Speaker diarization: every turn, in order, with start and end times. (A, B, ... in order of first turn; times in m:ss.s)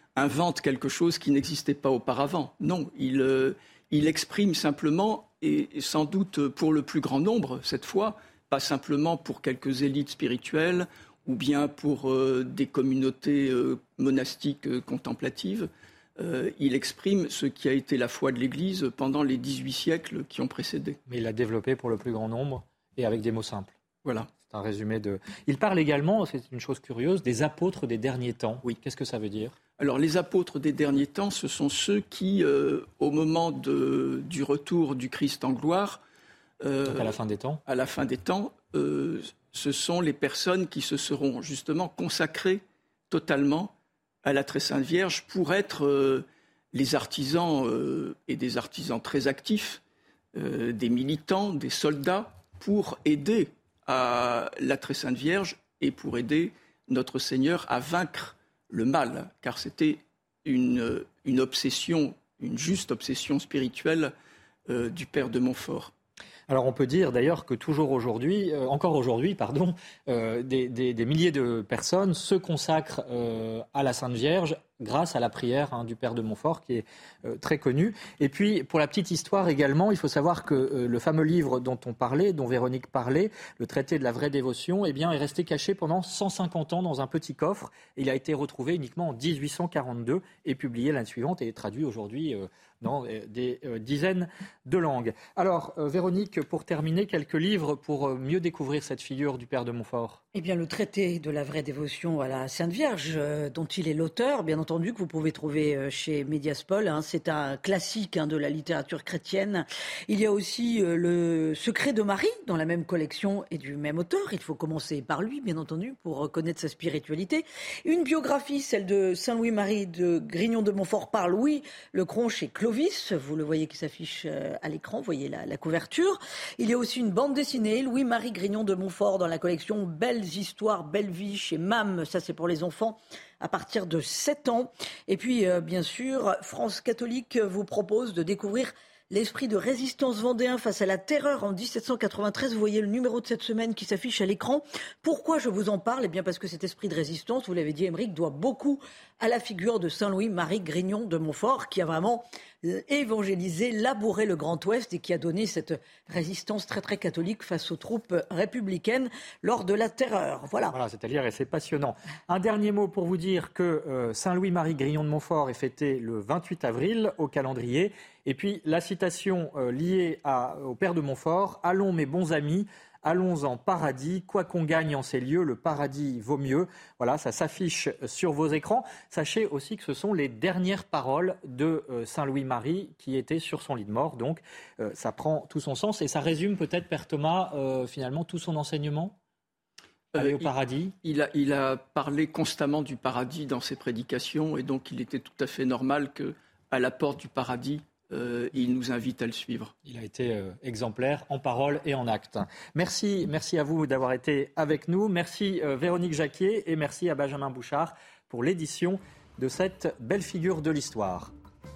0:00.2-0:21.0 A
0:21.1-0:23.7 B
0:24.0-0:24.3 A
0:24.4-0:29.6 B
0:29.8-0:36.0 A
0:36.6-0:37.1 A
0:36.9-0:37.6 B
0:37.7-0:43.7 A
0:44.2-0:49.8 A
0:50.3-1:04.1 A
1:04.7-1:05.9 A
1:06.5-1:40.2 B
1:40.3-2:40.8 C
2:40.7-3:09.2 B
3:10.1-3:10.5 A
3:10.2-3:11.0 B
3:11.0-3:19.7 A
3:19.8-3:31.3 B